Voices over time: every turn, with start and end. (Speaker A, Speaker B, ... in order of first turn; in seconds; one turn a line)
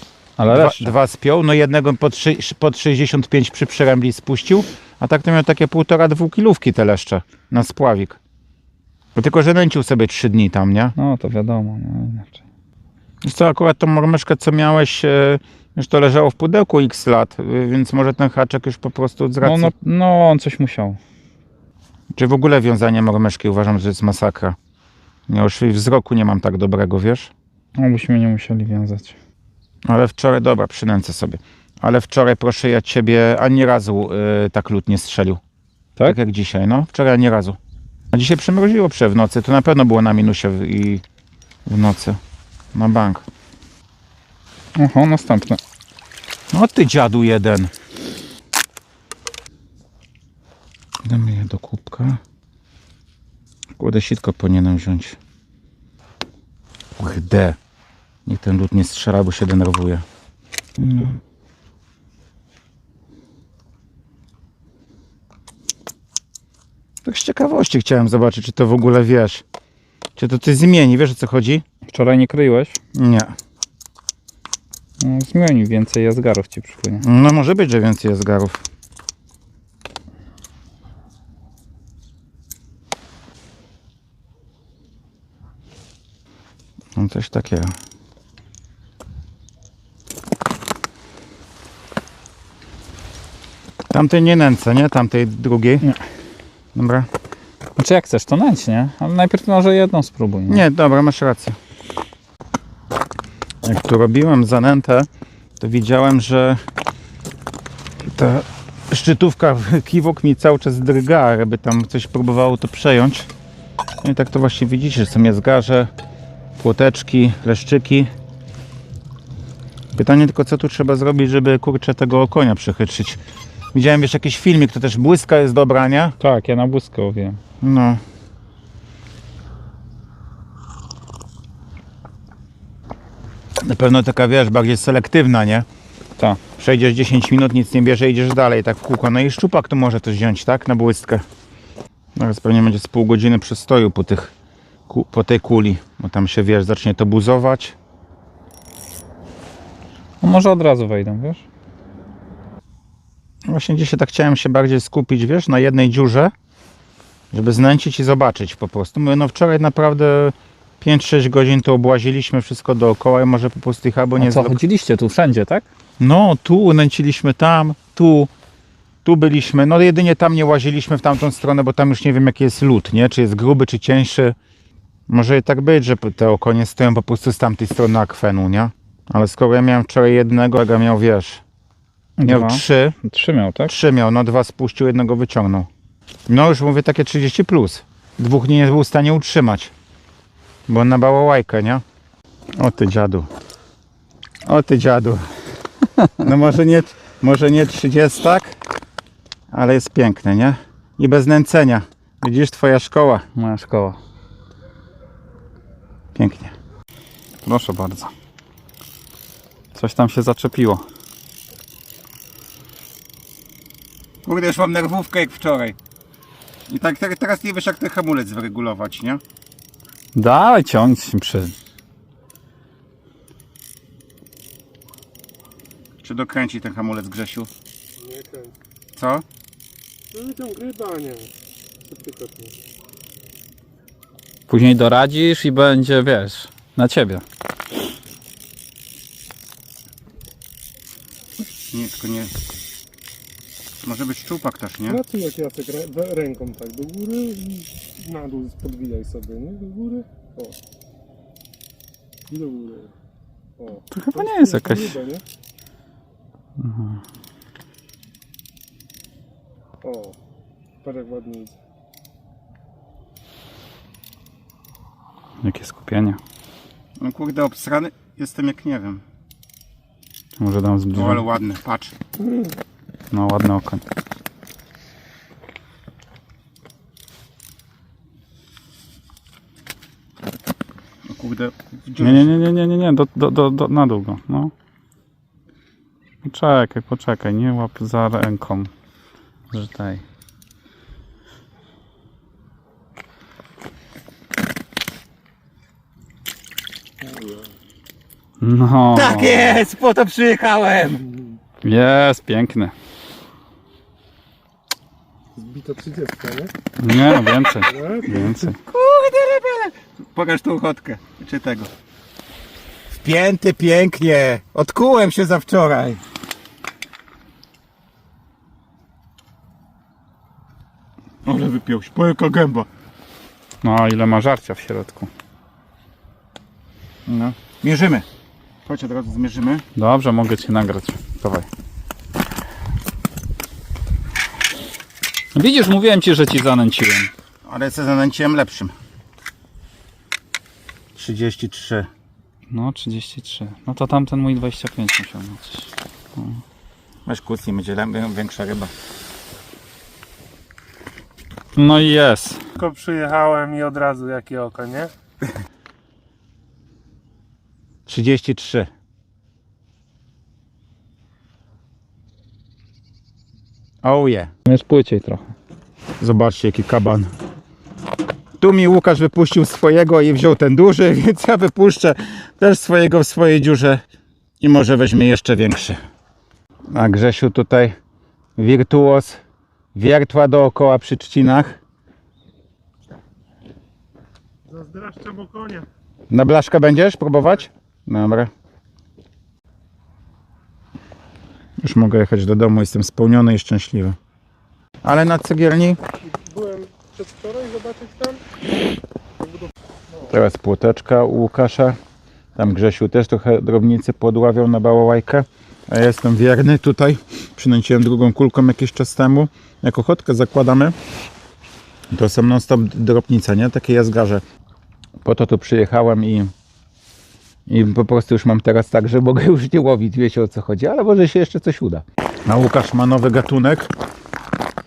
Speaker A: 0.4-0.9
Speaker B: 0.5-8.2
Speaker B: 9.1-10.9
Speaker A: 10.9-12.4
Speaker B: 13.2-19.7
Speaker A: 19.4-21.0
Speaker B: 22.1-24.6
Speaker B: 25.3-27.3
Speaker A: 27.8-29.2
Speaker B: 29.8-35.4
Speaker B: 36.0-37.6
Speaker B: 38.1-41.0
Speaker B: 41.6-42.2
Speaker B: 42.7-43.2
Speaker A: 44.8-45.6
Speaker B: 46.5-47.7
Speaker B: 51.0-52.2
Speaker B: 53.8-55.2
Speaker B: 57.0-57.6
Speaker B: 58.2-60.0
Speaker B: 60.8-61.2
Speaker B: 67.0-69.4
Speaker B: 70.2-71.6
Speaker A: 71.8-72.8
Speaker B: 72.9-73.3
Speaker A: 75.0-77.0
Speaker B: 77.0-78.6
Speaker B: 86.9-87.7
Speaker B: 93.9-95.8
Speaker B: 96.7-97.1
Speaker A: 97.8-100.6
Speaker B: 100.5-101.5
Speaker B: 103.6-105.1
Speaker B: 105.6-106.6
Speaker B: 108.0-113.3
Speaker B: 114.0-115.9
Speaker B: 116.6-118.1
Speaker B: 119.9-123.2
Speaker B: 123.7-126.2
Speaker A: 126.2-127.4
Speaker B: 127.6-128.0
Speaker B: 133.6-135.7
Speaker B: 136.6-141.2
Speaker B: 142.2-144.3
Speaker B: 144.9-147.8
Speaker A: 150.2-151.4
Speaker B: 153.5-156.3
Speaker B: 157.3-164.6
Speaker A: 164.2-165.7
Speaker B: 166.0-168.3
Speaker B: 169.0-174.3
Speaker B: 175.1-181.4
Speaker A: 182.2-183.7
Speaker B: 182.2-182.9
Speaker B: 183.7-185.7
Speaker B: 186.3-189.7
Speaker B: 190.7-191.8
Speaker B: 192.6-193.3
Speaker B: 194.4-195.3
Speaker B: 196.2-198.6
Speaker B: 199.5-203.3
Speaker A: 203.3-204.0
Speaker B: 206.1-206.5
Speaker A: 207.4-208.1
Speaker A: 209.7-210.8
Speaker B: 214.2-215.8
Speaker B: 216.7-219.2
Speaker A: 220.1-221.5
Speaker B: 226.0-227.5
Speaker C: 228.0-228.5
Speaker B: 228.9-229.2
Speaker C: 230.1-231.3
Speaker C: 231.8-232.5
Speaker A: 234.5-237.2
Speaker B: 241.7-242.3
Speaker B: 243.8-245.0
Speaker C: 244.8-250.6
Speaker C: 252.3-252.9
Speaker C: 253.6-255.2
Speaker A: 253.9-254.9
Speaker A: 256.6-257.0
Speaker C: 259.8-260.2
Speaker C: 260.8-261.6
Speaker A: 265.4-266.2
Speaker B: 267.0-269.0
Speaker A: 270.4-271.2
Speaker B: 270.9-271.9
Speaker A: 273.1-273.8
Speaker B: 281.0-282.4
Speaker A: 282.0-284.5
Speaker A: 286.2-288.7
Speaker A: 289.5-290.0
Speaker C: 297.0-297.4
Speaker A: 298.4-299.4
Speaker B: 298.9-301.0
Speaker A: 301.6-302.7
Speaker C: 305.4-306.5
Speaker A: 306.8-308.6
Speaker C: 307.6-308.4
Speaker B: 308.5-311.7
Speaker B: 312.9-316.0
Speaker B: 321.2-322.7
Speaker A: 323.6-325.1
Speaker B: 327.1-328.1
Speaker B: 328.6-329.6
Speaker A: 329.8-331.5
Speaker A: 335.3-337.1
Speaker B: 337.4-338.7
Speaker B: 340.9-341.9
Speaker A: 342.5-346.4
Speaker B: 347.1-348.7
Speaker A: 351.6-352.4
Speaker C: 352.6-354.9
Speaker B: 357.9-358.7
Speaker B: 363.8-364.3
Speaker A: 364.4-365.3
Speaker B: 366.0-367.1
Speaker B: 368.4-373.8
Speaker B: 374.4-375.8
Speaker B: 376.7-377.8
Speaker B: 378.4-379.2
Speaker B: 379.7-381.6
Speaker C: 384.5-385.6
Speaker B: 386.1-388.3
Speaker B: 391.6-394.0
Speaker B: 394.8-395.8
Speaker C: 396.0-398.2
Speaker C: 399.2-400.0
Speaker B: 400.1-401.8
Speaker B: 402.4-410.7
Speaker B: 411.9-414.2
Speaker B: 415.0-416.3
Speaker B: 417.5-423.7